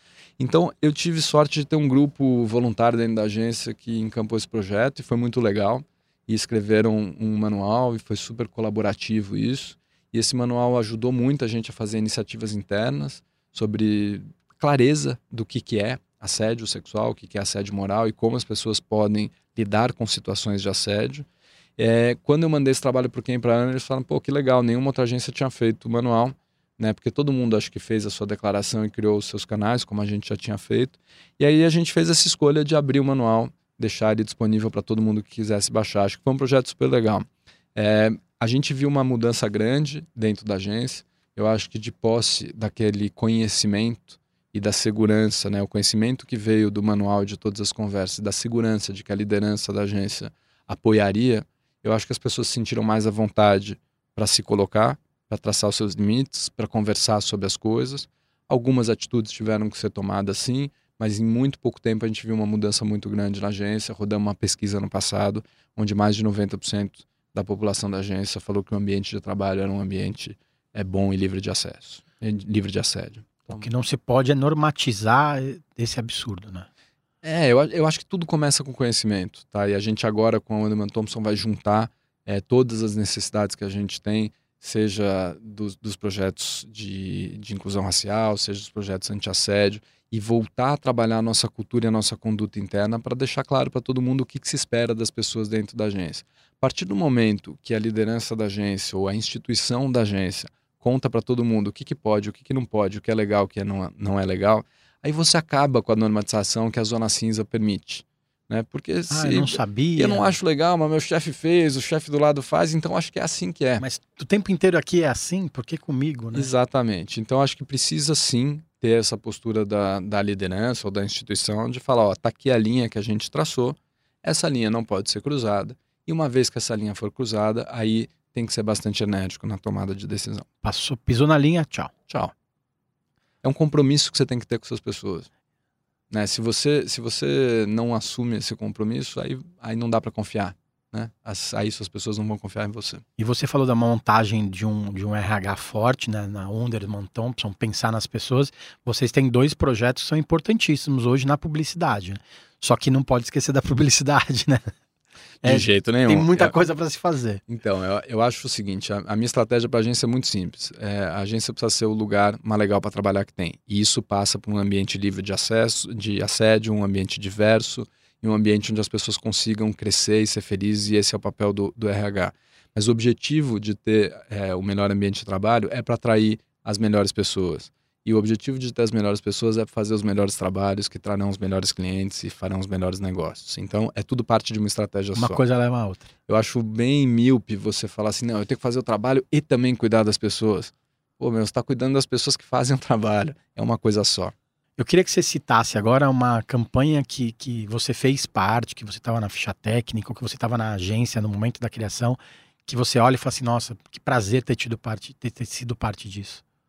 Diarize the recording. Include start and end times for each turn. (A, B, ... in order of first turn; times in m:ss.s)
0:00.4-1:13.6 A
1:13.5-1:16.7 B
1:17.2-1:53.8 A
1:49.1-1:50.4 B
1:53.8-1:56.5 B
1:56.3-2:10.5 A
2:10.6-2:11.9 B
2:13.4-2:15.3 A
2:16.1-2:23.0 A
2:23.2-2:34.7 B
2:35.4-2:36.5 A
2:35.4-2:37.4 B
2:37.5-3:05.4 A
3:05.1-3:06.1 B
3:06.3-3:14.3 A
3:14.8-3:26.4 B